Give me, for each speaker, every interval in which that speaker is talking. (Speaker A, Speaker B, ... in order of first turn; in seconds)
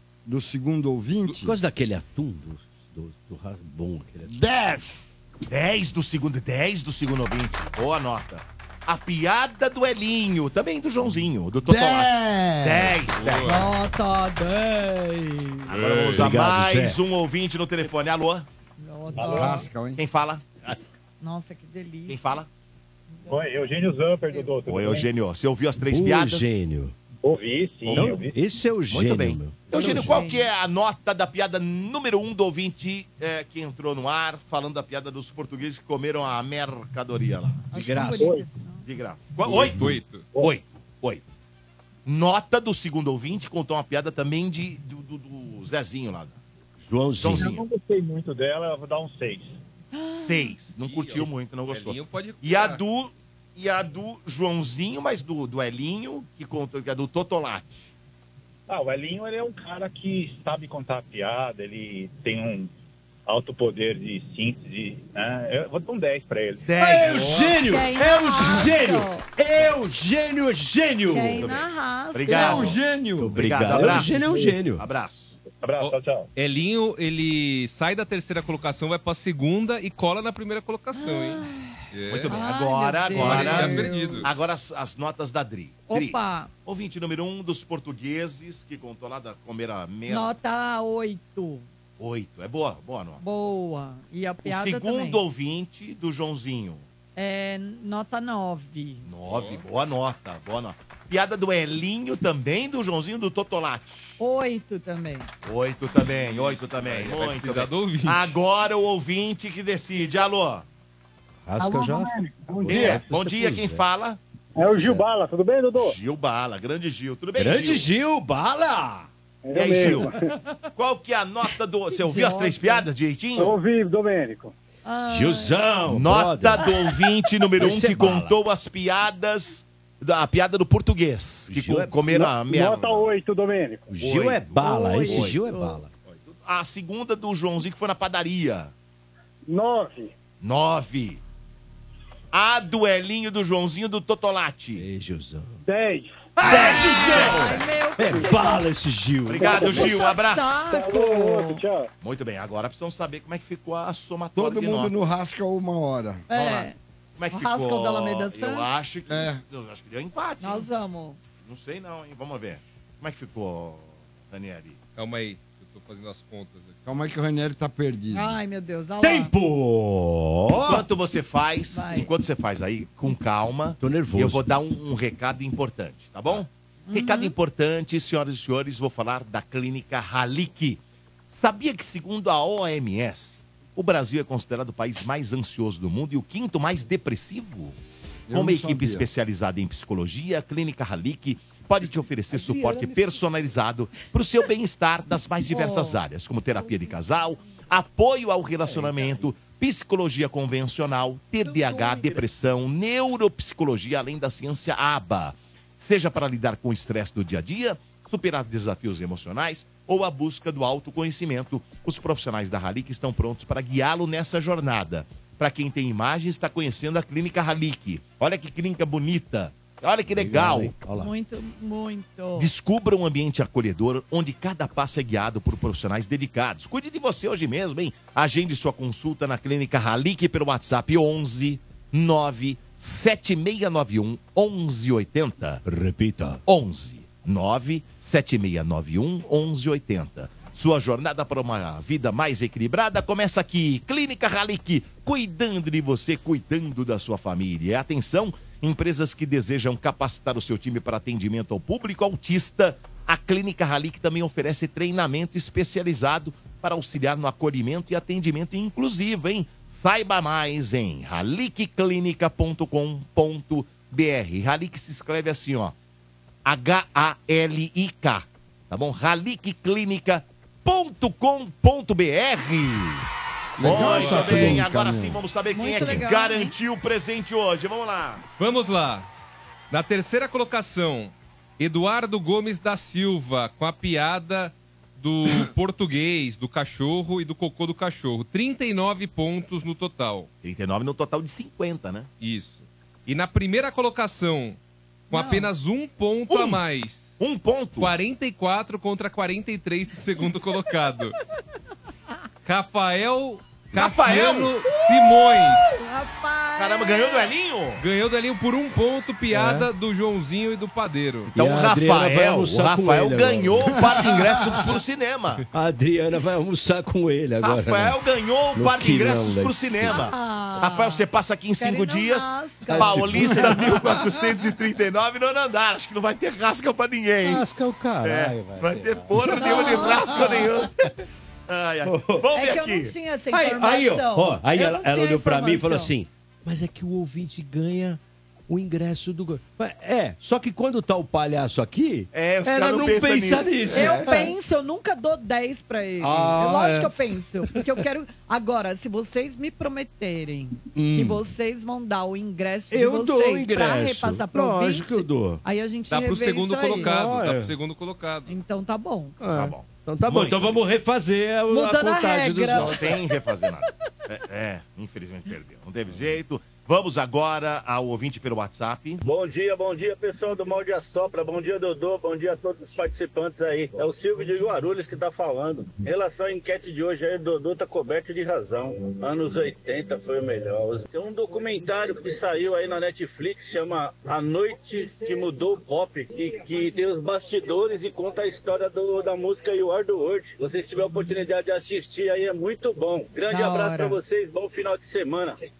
Speaker A: 0.2-1.6, 4.2-5.2, 11.6-13.0, 19.2-20.0, 39.5-39.8, 72.3-73.4, 154.3-156.4, 159.1-159.4, 166.8-168.4, 188.3-189.1, 273.6-275.2, 313.8-314.6
Speaker B: 1.3-4.4, 16.1-17.0, 25.9-26.9, 27.9-30.2, 37.7-38.4, 46.9-47.6, 66.8-71.5, 73.2-74.9, 111.5-113.8, 114.7-115.0, 117.3-119.1, 125.1-126.7, 127.6-128.3, 131.5-132.0, 133.9-135.9, 144.8-145.6, 146.4-150.1, 169.0-170.8, 173.8-174.6, 220.1-221.1, 235.6-236.4, 309.3-309.7, 311.3-313.8, 315.5-318.0, 318.5-320.1, 322.7-323.7, 327.2-330.5, 331.8-332.2, 333.3-344.3, 346.0-346.9, 350.7-351.2, 352.7-355.4, 356.8-357.5, 359.2-362.9
Speaker C: 5.5-13.6, 15.7-18.5, 20.0-20.9, 22.1-22.5, 24.7-26.6, 28.9-37.7, 38.8-41.2, 42.0-46.4, 47.2-47.6, 50.1-57.9, 66.6-67.5, 71.4-72.8, 73.3-75.4, 82.1-90.3, 92.0-93.2, 94.4-96.8, 99.0-104.2, 105.4-110.6, 112.7-114.2, 115.8-117.9, 119.5-120.1, 120.8-123.6, 125.9-133.1, 134.0-135.4, 136.1-138.7, 140.4-141.2, 142.3-144.9, 146.5-147.4, 149.3-150.7, 152.0-155.1, 156.3-156.7, 157.2-160.7, 161.4-164.8, 170.7-187.8, 188.3-220.8, 222.3-235.6, 236.4-265.7, 266.4-273.1, 273.6-278.2, 290.4-292.1, 296.3-296.6, 297.2-297.9, 303.7-304.5, 306.6-307.8, 311.3-315.4, 317.4-327.4, 328.0-330.7, 331.5-332.9, 342.1-344.1, 359.3-360.6, 362.5-369.0
Speaker D: 13.1-13.7, 15.7-16.4, 39.5-40.3, 50.8-52.8, 75.8-82.3, 83.2-84.3, 99.3-99.6, 106.0-108.4, 164.9-166.8, 273.7-274.6, 278.4-279.1, 279.7-290.3, 292.2-294.6, 295.1-297.2, 297.8-301.2, 302.4-305.8, 307.8-311.3, 355.9-358.3
Speaker E: 13.4-15.7, 18.8-19.7, 21.2-22.4, 23.1-23.6, 29.7-30.5, 37.7-38.8, 49.9-50.5, 67.4-69.2, 71.1-72.7, 80.9-84.3, 85.9-86.5, 90.1-91.7, 93.2-95.2, 97.2-99.1, 104.2-105.3, 111.6-112.0, 121.9-122.9, 124.8-125.6, 134.6-135.8, 146.4-148.7, 149.7-151.6, 156.3-156.8, 157.3-158.7, 160.4-161.2, 168.1-169.3, 171.7-172.1, 176.9-177.3, 195.5-196.0, 201.4-202.2, 220.9-222.5, 275.5-276.5, 295.1-295.5, 305.6-307.3, 319.9-321.0, 321.6-323.7, 329.4-330.5, 332.3-335.9, 343.7-356.9, 358.3-359.2, 361.5-362.9, 393.3-394.0
Speaker F: 27.3-28.3, 111.6-113.0, 114.6-116.0, 119.4-120.3, 123.3-124.5, 132.1-133.9, 139.5-140.1, 145.6-146.3, 149.4-149.8, 150.7-151.9
Speaker G: 369.0-395.4